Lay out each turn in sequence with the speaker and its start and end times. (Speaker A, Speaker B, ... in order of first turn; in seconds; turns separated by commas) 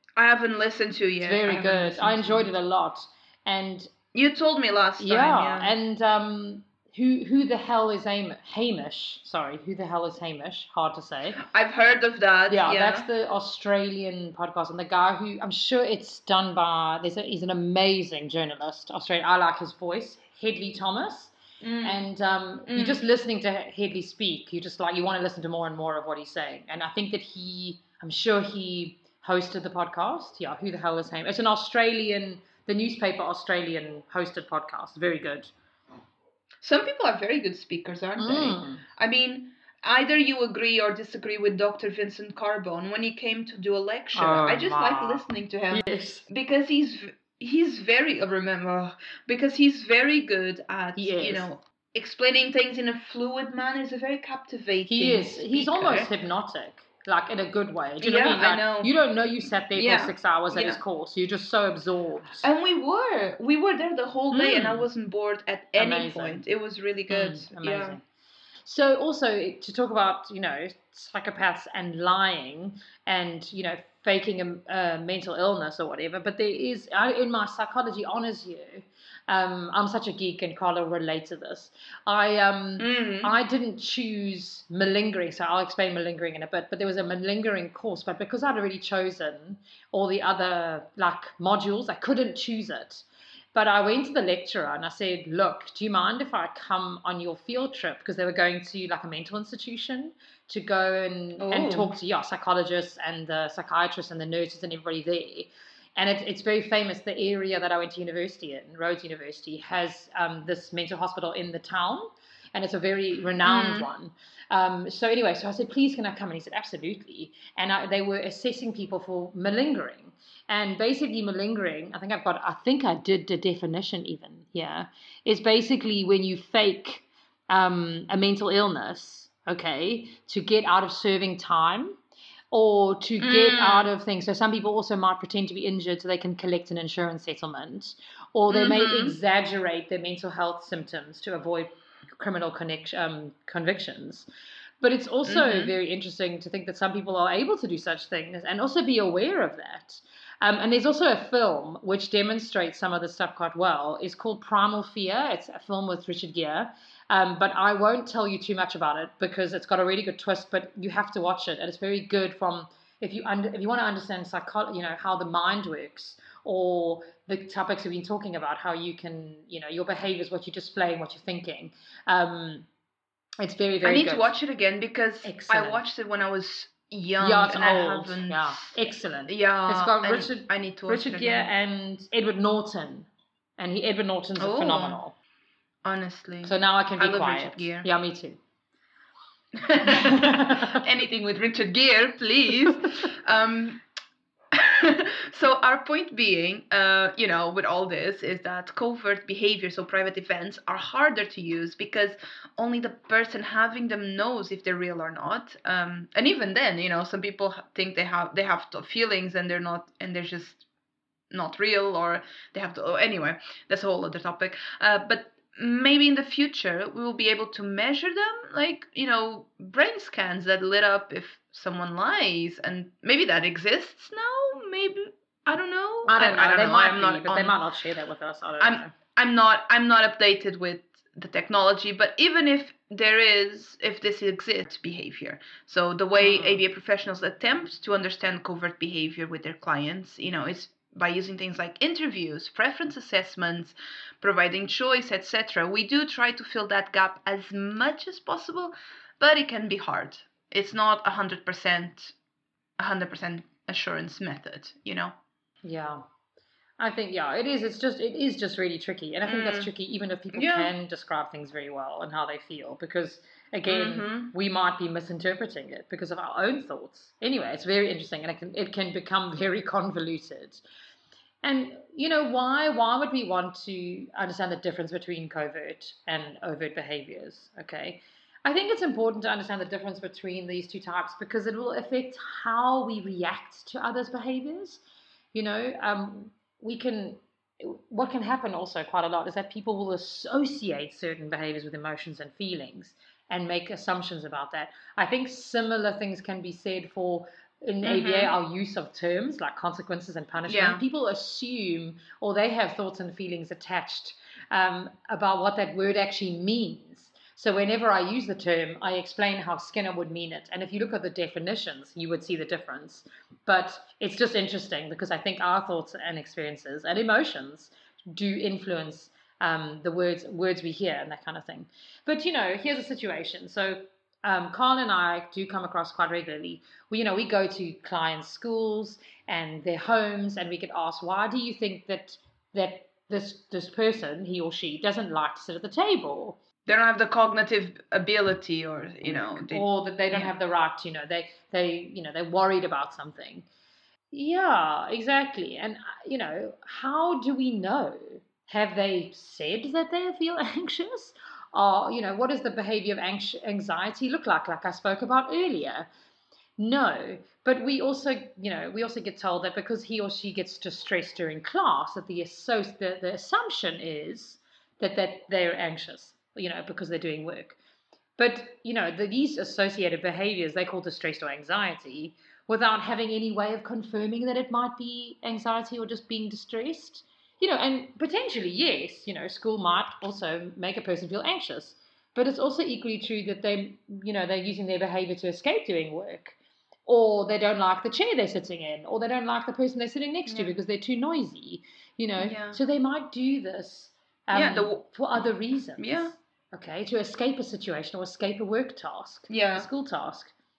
Speaker A: 0.2-2.5, Speaker B: 1.2-3.9, Speaker A: 4.1-5.7, Speaker B: 5.0-11.4, Speaker A: 11.4-13.1, Speaker B: 12.5-35.5, Speaker A: 21.6-22.0, Speaker A: 22.7-23.0, Speaker A: 36.6-56.1, Speaker B: 38.2-38.8, Speaker B: 44.1-46.3, Speaker B: 51.0-51.5, Speaker B: 54.9-62.5, Speaker A: 58.0-58.9, Speaker A: 59.7-60.8, Speaker A: 62.4-68.0, Speaker B: 64.3-64.8, Speaker B: 65.8-66.4, Speaker B: 67.1-68.0, Speaker B: 68.6-132.0, Speaker A: 82.8-83.3, Speaker A: 101.4-101.9, Speaker A: 113.4-113.9, Speaker B: 132.5-144.3, Speaker A: 133.2-133.9, Speaker A: 138.5-139.2, Speaker B: 144.8-172.7, Speaker A: 145.2-145.7, Speaker B: 173.4-174.3, Speaker A: 173.8-178.7, Speaker B: 175.2-175.8, Speaker B: 177.2-185.1, Speaker A: 179.3-181.5, Speaker A: 184.4-185.0, Speaker A: 185.8-187.9, Speaker B: 186.4-188.4, Speaker A: 189.6-193.8, Speaker B: 189.8-190.8, Speaker A: 194.5-210.6, Speaker A: 211.3-227.6, Speaker B: 226.1-228.9, Speaker A: 228.6-252.1, Speaker B: 236.2-236.6, Speaker A: 252.8-255.1, Speaker B: 255.6-256.0, Speaker B: 256.8-270.6, Speaker A: 259.2-259.7, Speaker A: 260.3-260.7, Speaker A: 263.6-264.3, Speaker B: 271.4-284.8, Speaker B: 285.3-336.4, Speaker A: 297.8-298.3, Speaker A: 300.5-300.8, Speaker A: 336.6-340.3, Speaker B: 339.0-343.5, Speaker B: 344.1-355.9, Speaker B: 356.6-367.6, Speaker B: 368.2-386.4, Speaker B: 386.9-400.3, Speaker A: 390.3-390.5, Speaker A: 392.2-392.6, Speaker A: 394.3-394.8, Speaker A: 395.8-396.1, Speaker A: 399.3-399.7